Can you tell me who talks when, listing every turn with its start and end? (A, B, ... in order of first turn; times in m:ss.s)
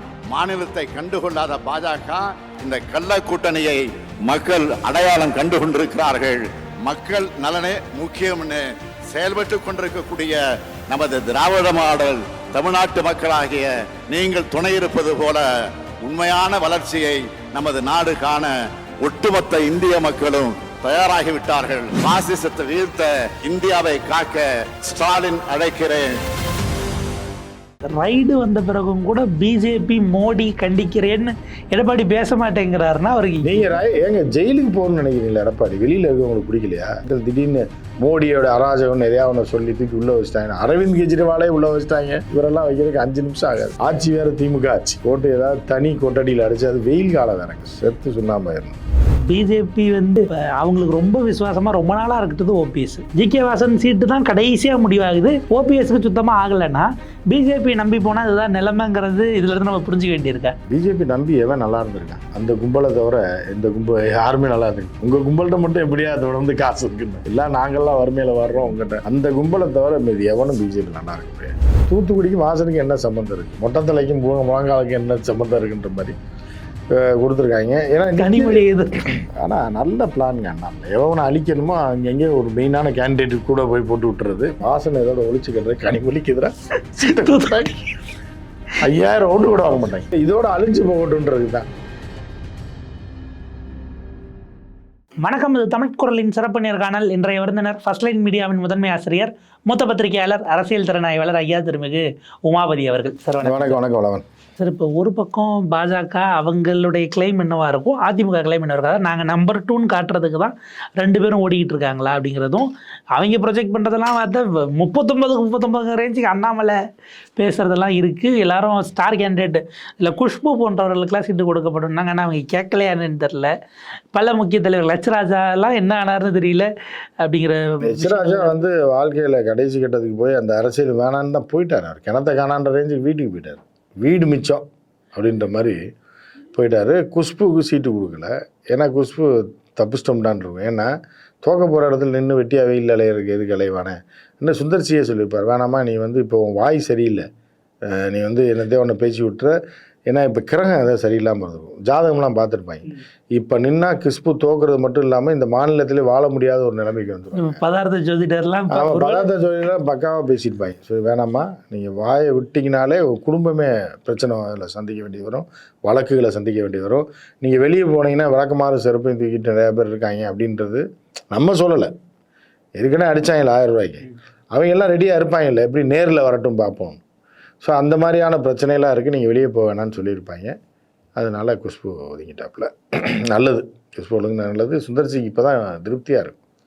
0:00.3-0:10.4 A
0:10.9-0:15.4 A
0:16.0-0:26.1 A
0:27.9-0:33.7 B
0:33.4-0:48.8 C
0:49.3-1:00.6 B
1:00.7-1:16.2 C
1:16.9-1:18.6 C
1:18.2-1:19.0 B
1:19.4-1:27.8 C
1:27.0-1:27.6 B
1:28.8-1:31.7 C
1:35.2-1:43.8 B
1:43.4-1:44.2 C
1:44.6-1:56.8 B
1:57.4-2:03.5 B
2:04.1-2:06.7 B
2:07.2-2:08.6 B
2:07.8-2:15.8 C
2:16.5-2:20.9 C
2:21.4-2:27.2 C
2:27.9-2:29.5 C
2:30.1-2:37.6 C
2:37.3-2:39.3 B
2:38.7-2:51.9 C
2:52.8-2:57.0 C
2:57.6-3:00.6 C
3:01.2-3:02.7 C
3:03.3-3:06.4 C